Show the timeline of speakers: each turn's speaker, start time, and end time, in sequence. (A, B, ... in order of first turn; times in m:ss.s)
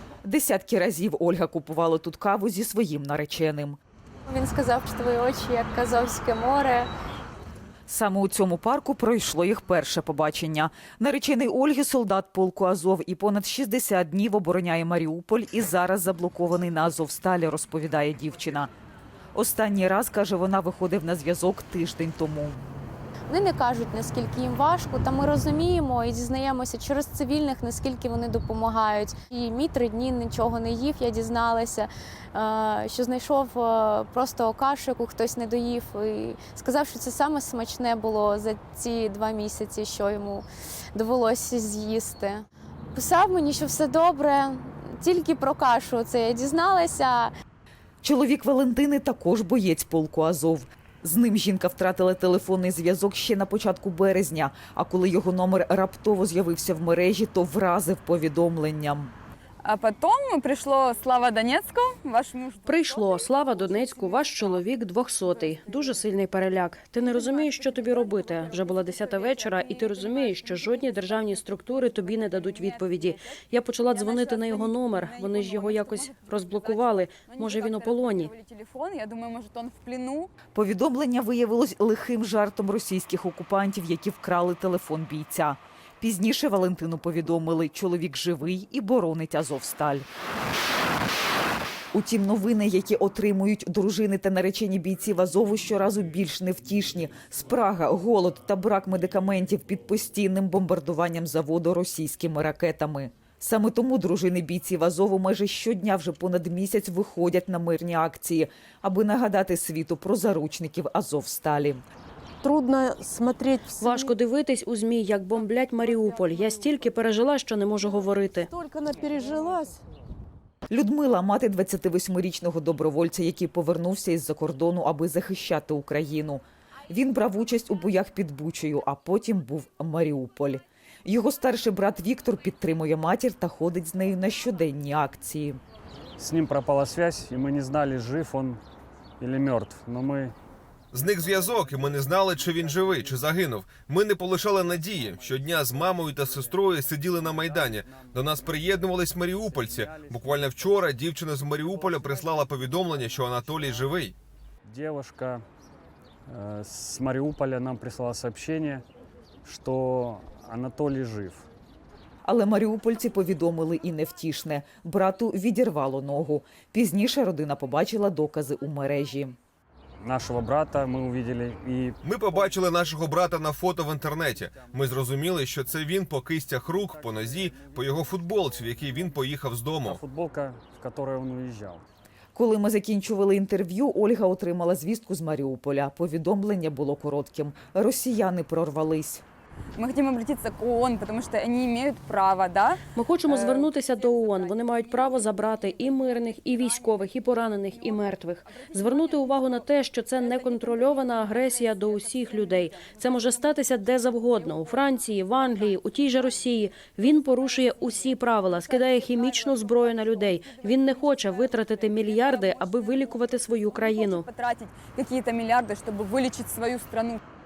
0:00.2-0:03.8 A
0:04.3-0:06.9 B
0:07.9-0:18.7 A
0:19.3-0:22.6 A
0:23.3-0:47.3 B
0:48.0-0:59.1 A
0:59.6-1:06.0 C
1:02.7-1:18.3 D
1:07.0-1:20.3 C
1:20.5-1:30.1 A
1:31.9-1:51.8 A
1:52.4-1:54.1 E
1:53.8-1:58.5 D
1:55.9-1:56.5 E
1:58.5-1:59.8 E
2:00.7-2:15.6 A
2:16.2-2:18.6 F
2:19.2-2:20.4 F
2:20.9-2:34.2 G
2:21.0-2:23.4 F
2:24.5-2:30.9 F
2:31.6-2:34.0 F
2:34.6-2:35.4 F
2:36.3-2:38.8 F
2:39.4-2:41.5 F
2:42.2-2:49.4 A
2:50.0-2:52.7 F
2:52.0-3:00.0 G
2:54.2-2:56.1 F
2:56.9-2:59.3 F
2:59.9-3:01.8 F
3:02.4-3:09.2 A
3:09.8-3:37.2 C
3:12.9-3:34.2 D